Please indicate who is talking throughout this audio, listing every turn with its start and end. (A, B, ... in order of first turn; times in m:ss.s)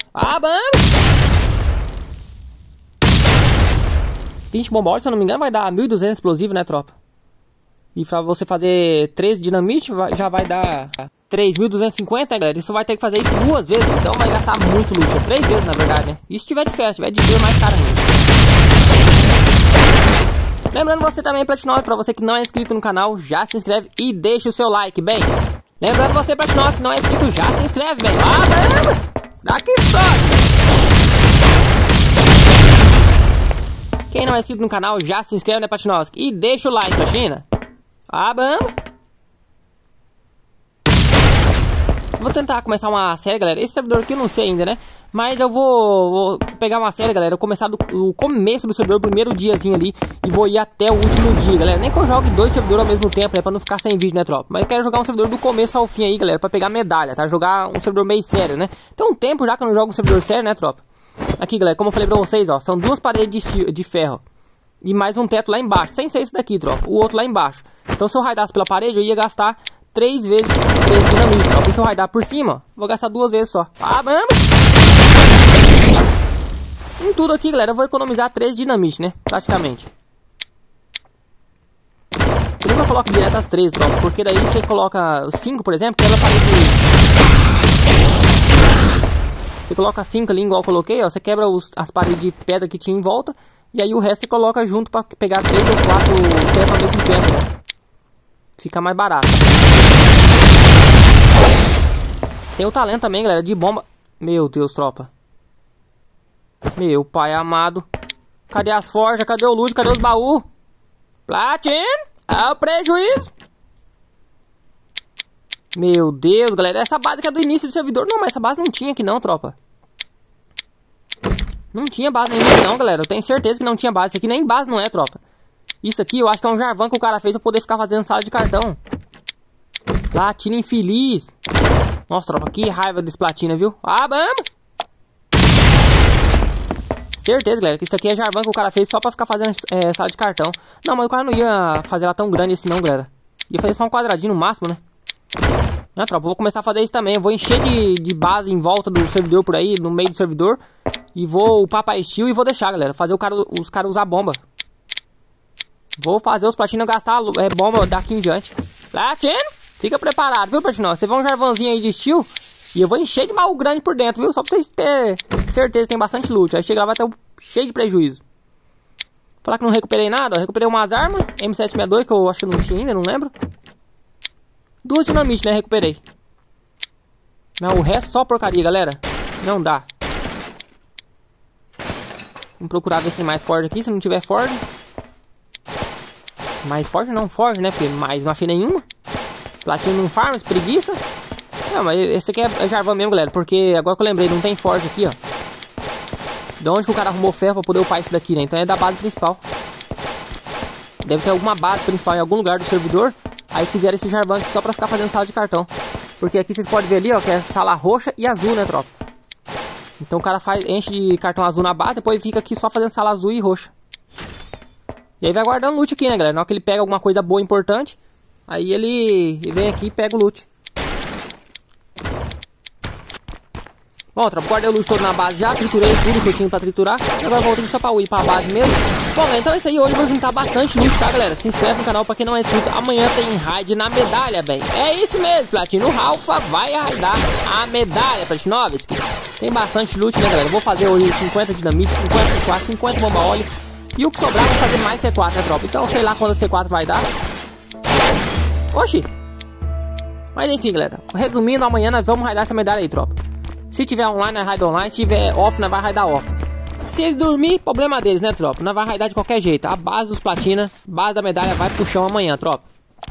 0:00.1-0:00.8 A
0:04.5-0:07.0 A
0:08.0-0:18.1 A
0:20.7-0:30.4 A
0:34.1-0:37.4 A
0:38.1-0:38.7 A
0:42.2-1:00.8 A
1:01.4-1:04.2 A
1:04.8-1:14.4 A
1:17.0-1:19.9 A
1:22.6-1:26.8 A
1:29.7-1:37.5 A
1:38.6-1:39.5 A
1:42.6-1:45.1 A
1:46.8-1:47.9 A
1:48.5-1:50.4 A
1:51.3-1:53.3 A
1:55.7-1:59.6 A
2:01.7-2:05.2 A
2:05.8-2:08.8 A
2:10.1-2:11.4 A
2:12.1-2:14.5 A
2:17.2-2:24.8 A
2:26.0-2:30.6 A
2:31.2-2:34.4 A
2:36.0-2:48.2 A
2:49.4-2:53.3 A
2:54.8-2:56.0 A
2:57.6-2:59.9 A
3:02.6-3:04.6 A
3:06.6-3:08.8 A
3:09.6-3:11.0 A
3:11.7-3:15.2 A
3:16.6-3:19.4 A
3:21.0-3:28.9 A
3:30.0-3:33.7 A
3:35.2-3:40.5 A
3:44.1-4:07.1 A
4:08.7-4:09.1 A
4:10.4-4:13.2 A
4:13.7-4:16.4 A
4:16.9-4:22.6 A